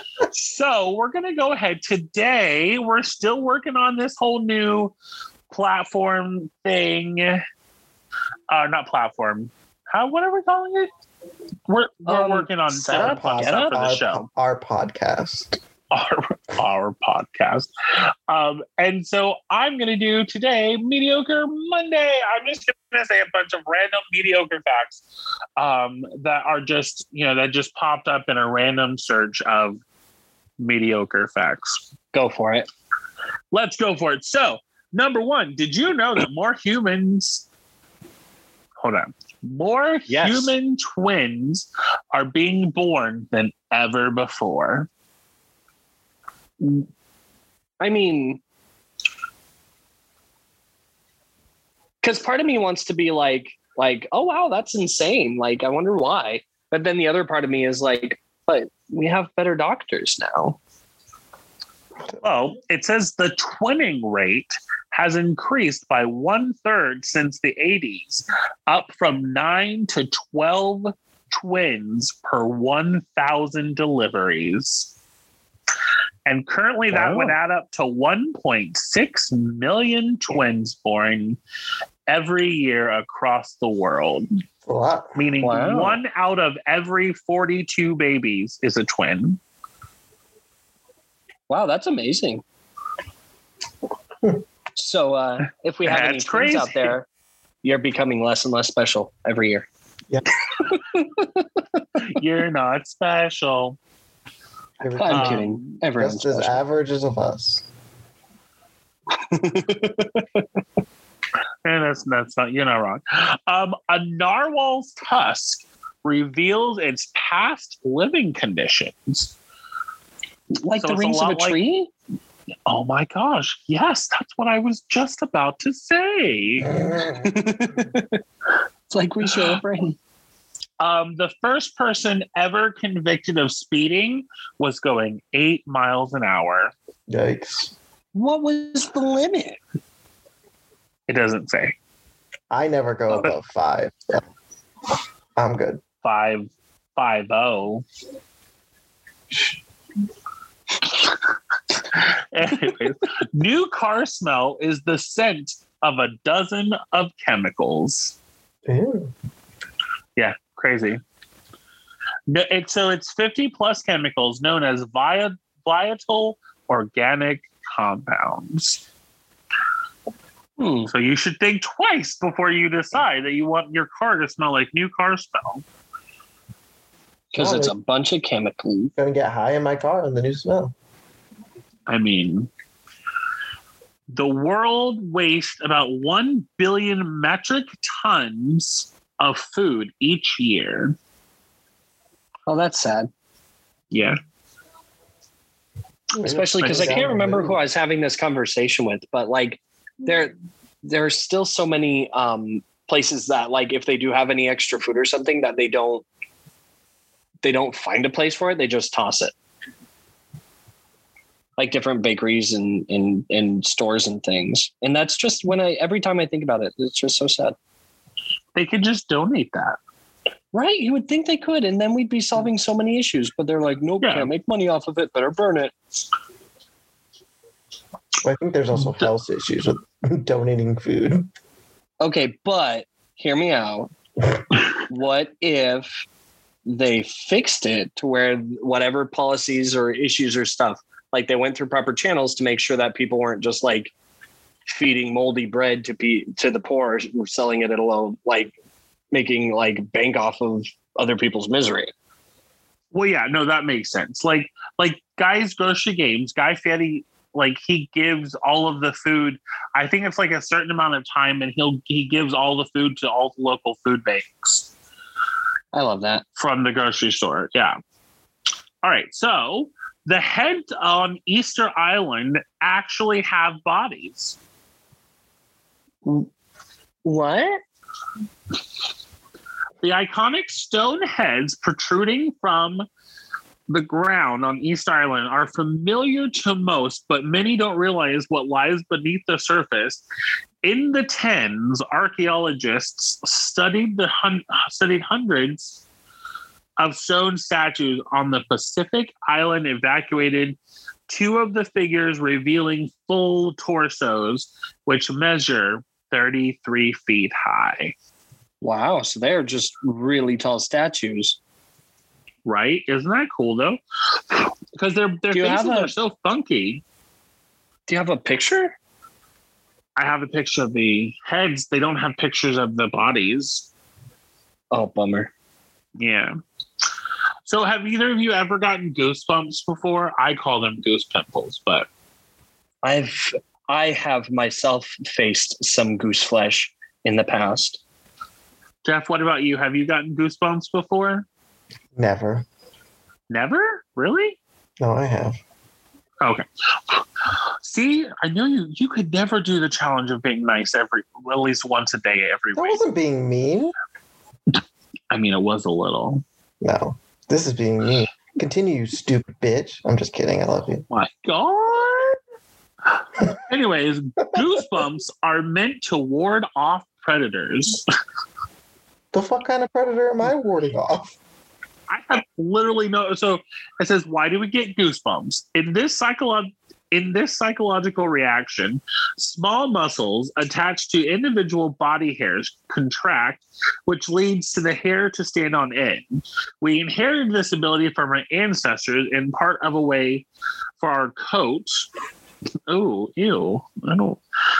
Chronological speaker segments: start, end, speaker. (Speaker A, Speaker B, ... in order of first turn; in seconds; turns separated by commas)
Speaker A: 0.3-4.9, Speaker A: 5.5-7.4, Speaker A: 8.5-10.9, Speaker A: 11.7-14.3, Speaker B: 12.1-13.8, Speaker C: 12.9-15.6, Speaker A: 15.9-25.0, Speaker A: 25.6-29.8, Speaker A: 30.6-31.8, Speaker B: 32.1-32.7, Speaker A: 33.5-37.5, Speaker A: 38.8-44.9, Speaker B: 40.1-40.5, Speaker B: 47.8-48.4, Speaker B: 52.0-60.6, Speaker A: 62.2-74.9, Speaker A: 76.3-81.4, Speaker B: 76.9-77.4, Speaker A: 82.1-84.3, Speaker C: 84.7-85.2, Speaker A: 85.2-89.4, Speaker B: 85.4-86.0, Speaker B: 91.5-92.4, Speaker B: 94.8-97.1, Speaker A: 95.8-97.0, Speaker B: 97.6-99.7, Speaker B: 100.6-101.3, Speaker A: 102.0-103.8, Speaker C: 104.8-107.7, Speaker B: 105.0-106.6, Speaker A: 105.1-105.8, Speaker B: 109.3-110.4, Speaker A: 111.7-119.3, Speaker B: 120.6-121.9, Speaker A: 120.8-121.6, Speaker A: 122.7-126.7, Speaker C: 126.7-127.4, Speaker B: 127.2-128.2, Speaker B: 128.9-130.0, Speaker A: 130.8-136.7, Speaker C: 137.1-137.7, Speaker B: 138.1-139.6, Speaker A: 141.1-141.8, Speaker C: 142.5-144.2, Speaker C: 145.4-145.8, Speaker A: 146.0-147.8, Speaker C: 149.3-149.6, Speaker A: 151.9-158.2, Speaker C: 158.7-159.1, Speaker A: 160.2-161.0, Speaker A: 162.3-168.8, Speaker B: 170.6-170.9, Speaker A: 170.9-175.6, Speaker B: 177.3-178.9, Speaker C: 177.3-177.7, Speaker C: 178.9-180.7, Speaker A: 181.9-182.5, Speaker A: 184.1-191.0, Speaker B: 192.5-193.1, Speaker A: 193.9-194.2, Speaker C: 196.2-197.6, Speaker B: 196.2-206.1, Speaker A: 196.6-197.0, Speaker B: 207.4-209.3, Speaker B: 211.6-217.6, Speaker A: 218.6-219.8, Speaker B: 220.5-225.7, Speaker A: 224.0-224.3, Speaker C: 228.2-231.3, Speaker B: 232.0-233.9, Speaker B: 234.8-235.9, Speaker B: 236.7-243.9, Speaker B: 244.7-248.5, Speaker B: 249.1-251.9, Speaker A: 252.9-264.7, Speaker B: 265.7-266.2, Speaker A: 266.4-267.8, Speaker A: 268.8-274.4, Speaker B: 277.1-277.6, Speaker A: 279.8-282.9, Speaker A: 283.7-290.0, Speaker A: 290.6-295.8, Speaker A: 296.8-300.6, Speaker A: 301.1-307.9, Speaker B: 308.6-311.4, Speaker A: 312.4-313.8, Speaker A: 314.3-316.8, Speaker B: 315.3-315.9, Speaker B: 317.9-318.8, Speaker A: 320.0-323.7, Speaker B: 324.7-325.3, Speaker A: 326.0-326.3, Speaker A: 327.4-331.9, Speaker B: 332.8-337.8, Speaker A: 338.8-341.3, Speaker C: 341.9-342.4, Speaker A: 343.3-344.4, Speaker C: 344.8-345.4, Speaker A: 346.2-347.1, Speaker A: 347.6-352.8, Speaker C: 352.6-353.7, Speaker A: 355.1-356.2, Speaker C: 356.6-360.9, Speaker A: 360.9-362.2, Speaker A: 362.9-367.9, Speaker C: 369.1-371.1, Speaker A: 371.9-390.3, Speaker A: 390.8-391.9, Speaker A: 392.7-394.2